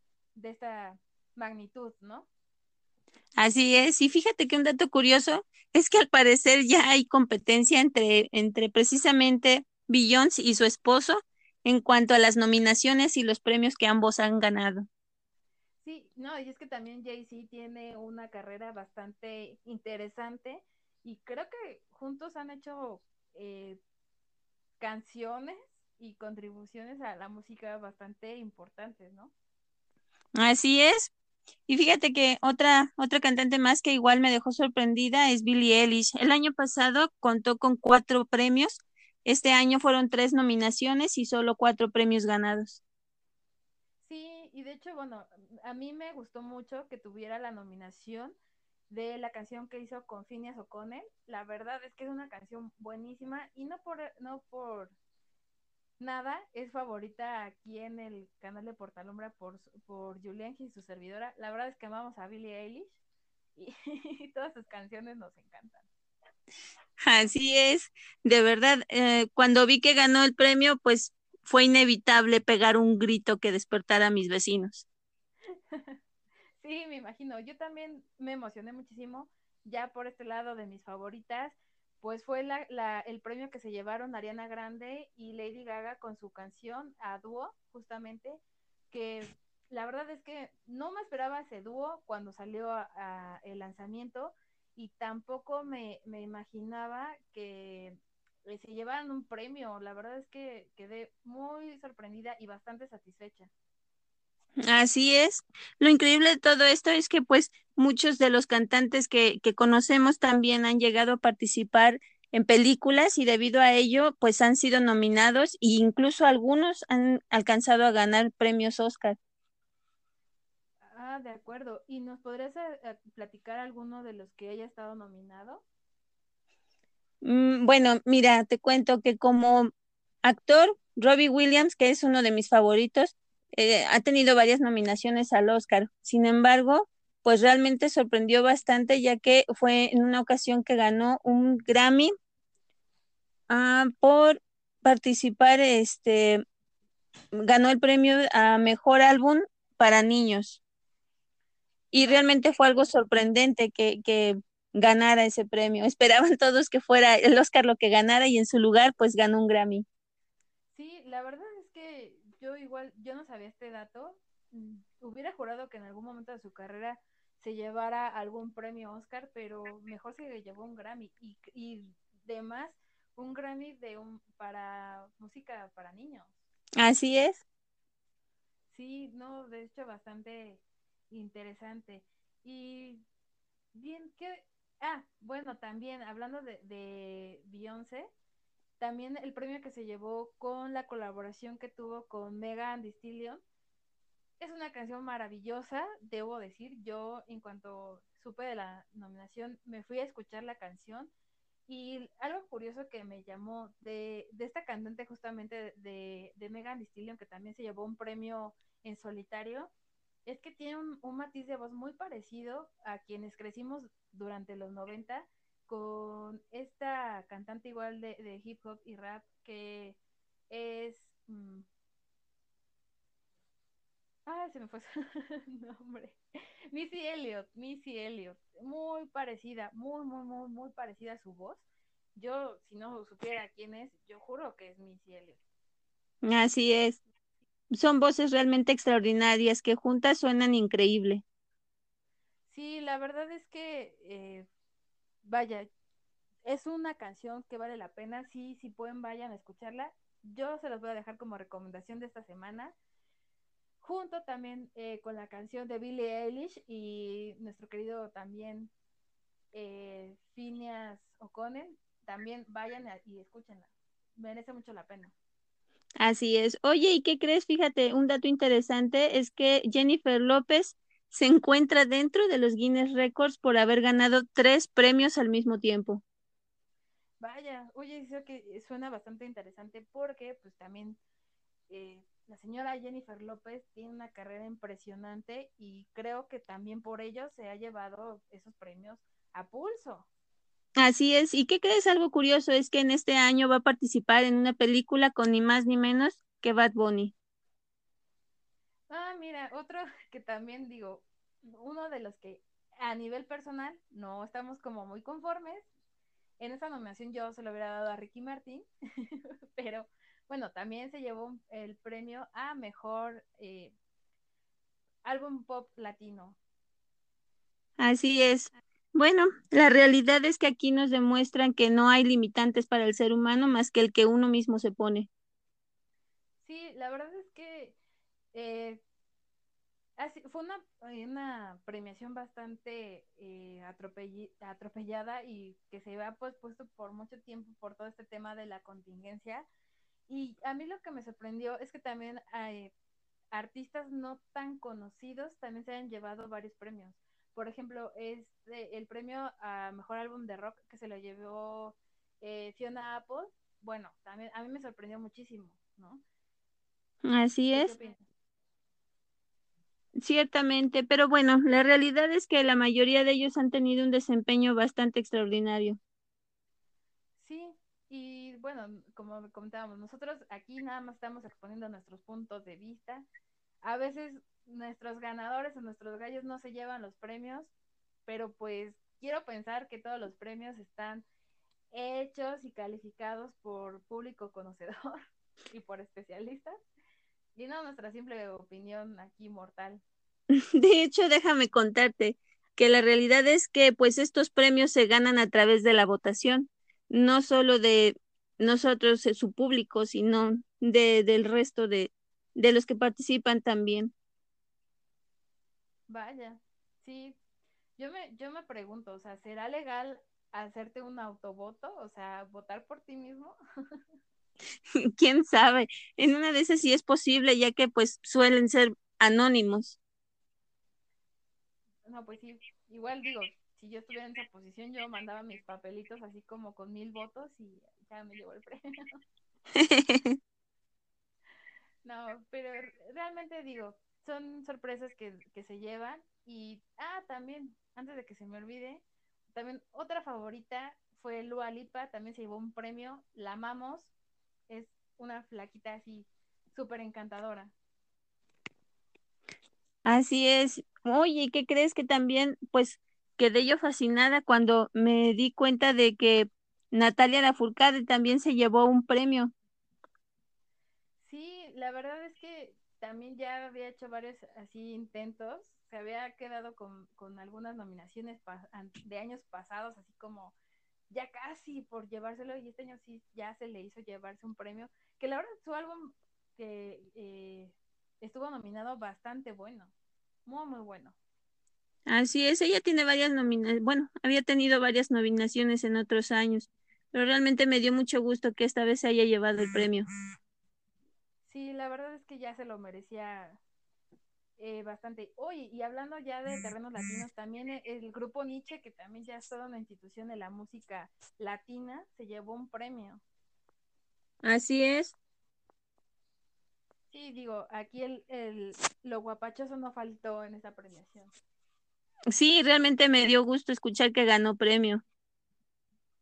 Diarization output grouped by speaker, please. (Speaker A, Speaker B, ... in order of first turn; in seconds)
Speaker A: 0.3-2.3, 15.8-23.8, 24.8-29.3, 44.0-48.4, 48.9-55.0, 56.0-63.0, 63.6-65.9, 75.7-76.0, 76.6-88.4, 88.9-103.5, 120.9-125.6, 160.7-176.4, 178.7-183.0, 183.7-188.1, 188.8-193.4, 194.4-201.1, 201.7-209.7, 210.3-220.0, 220.5-221.7, 224.3-226.2, 226.7-235.4, 242.5-244.5, 245.2-245.7, 246.4-252.7, 253.8-258.7, 259.5-265.1, 277.2-281.0, 281.7-290.1, 298.9-305.7, 306.4-313.7, 315.1-316.4, 326.4-327.8, 328.3-328.8, 330.0-339.5, 340.1-342.7, 343.3-356.0, 357.6-358.1, 367.2-373.1, 373.6-377.5, 378.1-381.1, 381.7-385.0, 385.5-386.6, 387.4-389.8, 405.9-407.2, 407.8-413.8, 421.9-429.0, 431.8-443.9, 444.5-447.5, 461.0-470.3, 470.9-479.7, 480.3-481.0, 491.3-493.4, 494.4-503.0, 506.9-511.1
Speaker B: 3.4-14.9, 30.4-31.1, 31.7-42.8, 67.0-74.8, 104.6-119.2, 127.2-129.7, 130.2-142.1, 143.5-146.4, 147.4-150.6, 151.9-159.9, 176.8-177.4, 236.2-237.0, 237.7-241.2, 266.0-276.0, 290.8-297.1, 317.8-325.1, 357.1-357.8, 360.0-365.8, 390.6-403.9, 414.8-419.8, 429.6-430.2, 449.9-459.3, 481.9-489.9, 504.2-504.9, 512.1-514.8